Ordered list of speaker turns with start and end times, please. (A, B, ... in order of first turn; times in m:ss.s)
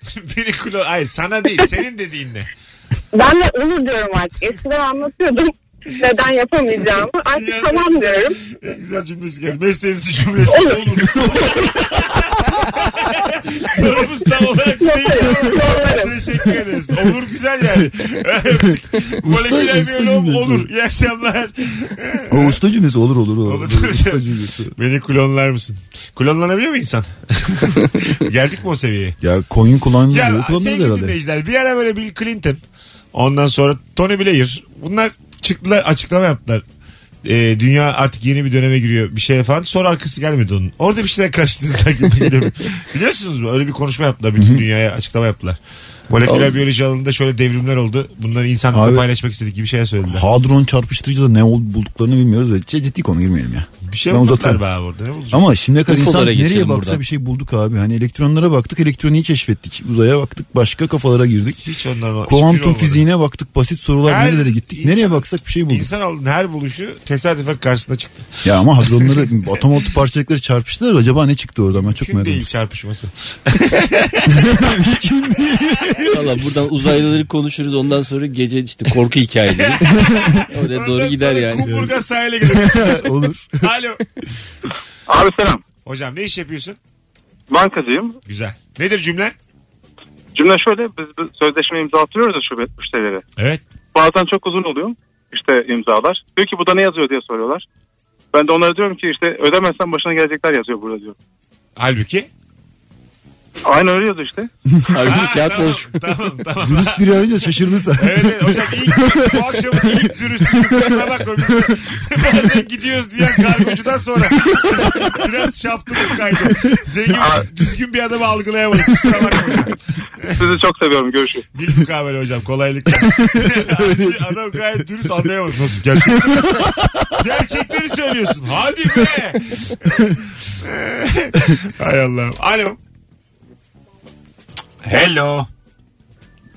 0:00.1-0:02.5 A
0:03.1-0:08.4 B
0:07.2-0:22.6 A
0:10.6-0:10.8 B
0:14.8-0:16.1 B
0:19.2-0:20.7 C
0:22.3-0:24.7 C
0:23.5-0:24.2 A
0:24.8-0:29.2 A
0:29.2-0:31.2 C
0:30.1-0:32.6 A
0:33.1-0:36.6 A
0:37.2-0:50.2 A
0:44.4-0:44.6 C
0:46.2-0:46.5 D
0:48.7-0:49.1 C
0:50.1-0:54.6 C
0:53.9-0:55.4 A
0:55.3-1:01.6 C
0:55.9-0:57.0 D
1:01.6-1:03.0 A
1:02.3-1:05.9 C
1:04.0-1:08.3 A
1:08.4-1:12.5 C
1:08.8-1:09.2 A
1:11.8-1:14.4 A
1:14.3-1:16.2 C
1:15.5-1:16.0 A
1:16.1-1:20.0 D
1:19.6-1:24.0 A
1:19.9-1:20.4 C
1:20.5-1:21.9 D
1:22.4-1:23.5 C
1:25.1-1:25.6 E
1:25.9-1:26.8 A
1:27.5-1:28.2 E
1:28.3-1:29.3 A
1:30.4-1:33.2 E
1:33.9-1:37.7 E
1:38.3-1:41.2 E
1:41.8-1:42.3 A
1:43.6-1:44.5 E
1:44.9-1:46.0 D
1:45.1-1:47.2 A
1:46.6-1:49.4 C
1:48.0-2:00.5 A
1:57.1-1:57.5 C
2:00.3-2:01.4 E
2:01.6-2:06.6 A
2:03.0-2:04.4 C
2:05.9-2:07.2 C
2:07.2-2:12.8 A
2:14.8-2:15.5 A